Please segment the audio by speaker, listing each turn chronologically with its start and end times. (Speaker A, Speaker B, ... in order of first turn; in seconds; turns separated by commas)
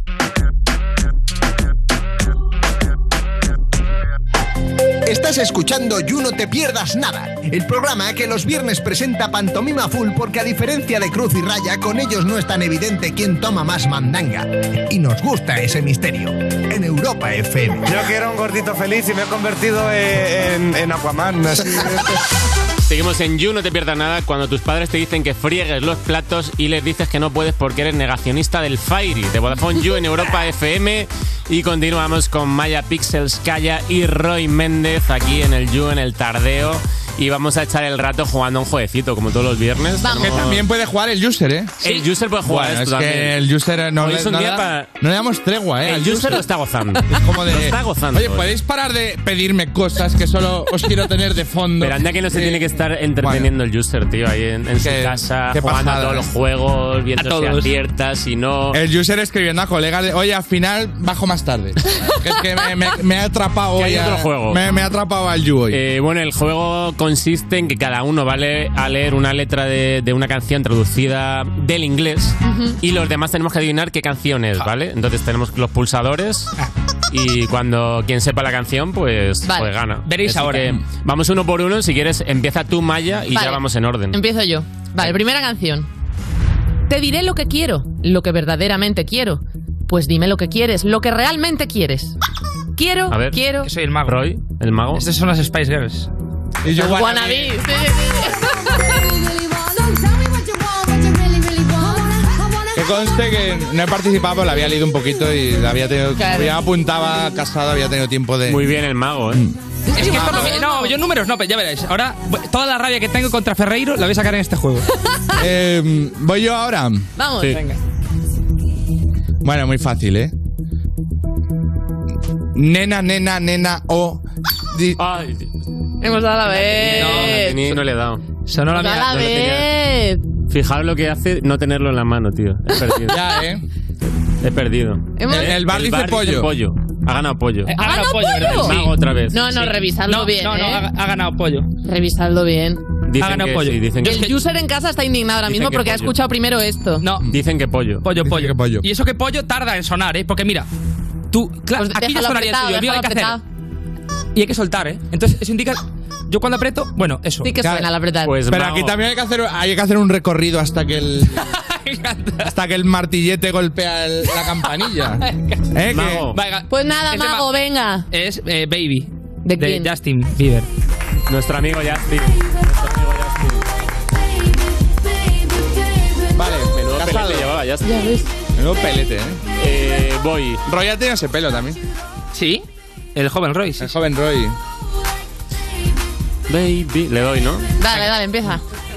Speaker A: 5.1-18.1, Speaker B: 18.0-21.8, Speaker C: 22.9-40.6, Speaker D: 40.0-40.4, Speaker E: 40.2-41.8, Speaker C: 41.8-43.3, Speaker E: 42.4-46.4, Speaker C: 44.0-44.9, Speaker C: 45.8-48.5, Speaker E: 47.1-53.5, Speaker C: 51.8-58.8, Speaker E: 54.8-56.3, Speaker F: 57.2-57.7, Speaker E: 58.7-65.8, Speaker D: 62.0-62.5, Speaker C: 63.8-64.6, Speaker C: 65.7-76.5, Speaker D: 72.4-72.8, Speaker C: 77.1-84.2, Speaker D: 79.5-79.7, Speaker F: 80.0-80.8, Speaker D: 83.3-85.9, Speaker D: 86.9-92.2, Speaker D: 92.8-93.7, Speaker C: 93.1-93.4, Speaker F: 93.6-94.2, Speaker C: 94.0-95.1, Speaker F: 95.0-96.1, Speaker E: 96.6-97.6, Speaker D: 96.7-99.1, Speaker C: 98.4-98.6, Speaker E: 102.7-108.7, Speaker D: 106.2-106.6, Speaker C: 108.5-109.4, Speaker E: 109.3-110.5, Speaker D: 109.9-111.0, Speaker F: 109.9-114.9, Speaker E: 115.4-117.1, Speaker D: 117.2-117.6, Speaker F: 117.5-117.8, Speaker E: 119.4-120.3, Speaker E: 122.5-125.0, Speaker C: 125.0-125.5, Speaker D: 126.0-127.8, Speaker C: 126.5-128.2, Speaker F: 126.9-127.4, Speaker F: 128.5-129.4, Speaker D: 128.7-130.2, Speaker C: 129.1-129.7, Speaker C: 130.5-133.2, Speaker E: 133.1-133.6, Speaker C: 134.4-137.8, Speaker D: 135.2-135.6, Speaker E: 135.3-136.5, Speaker F: 137.7-138.9, Speaker D: 137.8-140.9, Speaker C: 138.4-139.7, Speaker F: 139.5-141.7, Speaker D: 141.8-142.8, Speaker C: 143.1-144.3, Speaker F: 143.2-144.3, Speaker D: 144.0-147.1, Speaker C: 145.5-146.1, Speaker C: 147.3-148.1, Speaker F: 148.0-150.7, Speaker E: 148.2-148.9, Speaker F: 151.3-153.4, Speaker D: 151.8-153.4, Speaker F: 154.3-157.6, Speaker D: 157.4-158.3, Speaker E: 157.6-157.9, Speaker C: 158.2-159.0, Speaker E: 158.5-161.4, Speaker F: 161.4-162.5, Speaker E: 162.4-166.3, Speaker F: 165.2-165.7, Speaker C: 165.9-166.4, Speaker F: 166.3-167.5, Speaker D: 166.7-168.1, Speaker F: 168.1-170.7, Speaker D: 169.4-169.9, Speaker C: 171.3-173.6, Speaker E: 176.3-177.5, Speaker C: 176.7-178.0, Speaker D: 177.8-178.3, Speaker E: 178.6-179.4, Speaker C: 179.6-180.6, Speaker E: 180.7-181.8, Speaker F: 182.3-183.9, Speaker E: 183.8-184.6, Speaker C: 186.5-188.1, Speaker D: 187.8-188.6